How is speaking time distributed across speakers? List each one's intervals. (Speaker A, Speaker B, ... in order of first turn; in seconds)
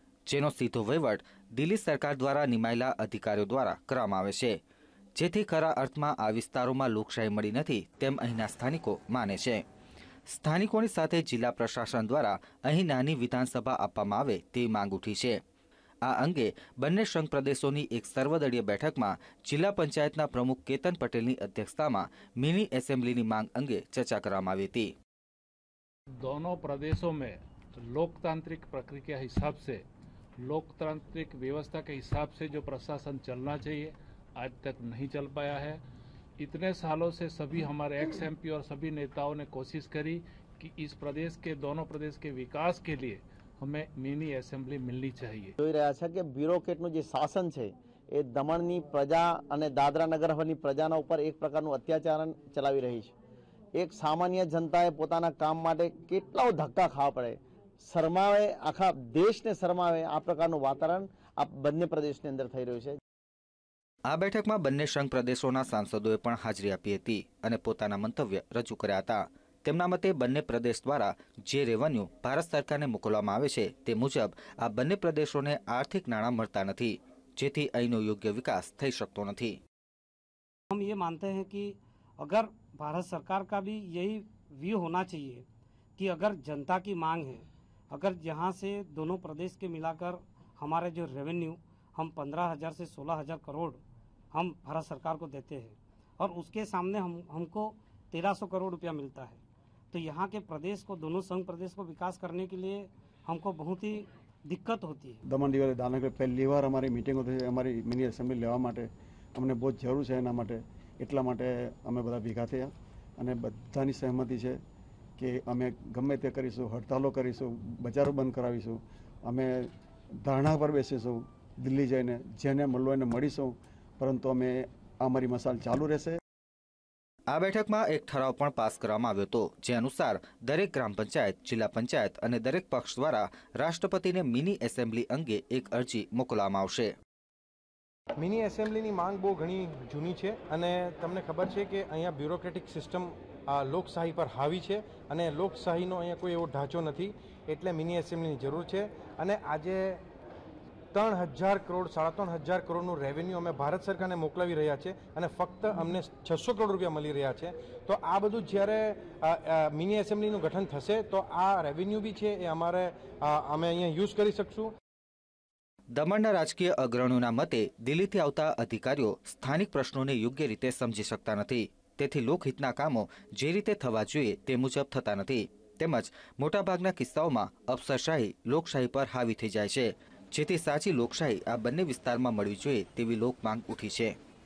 Speaker A: 0.3-4.6, 5.2-9.6, 10.3-15.4, 16.0-24.9, 64.1-79.6, 127.3-136.9, 165.9-184.1
Speaker B: 26.2-29.8, 30.4-35.8, 36.4-45.5
Speaker C: 45.6-53.1, 53.7-63.0
Speaker D: 80.7-85.4, 86.0-93.8, 94.3-99.4, 99.9-105.2
Speaker E: 105.3-114.6, 115.2-119.7, 120.2-126.2
Speaker F: 138.2-150.0, 150.9-164.7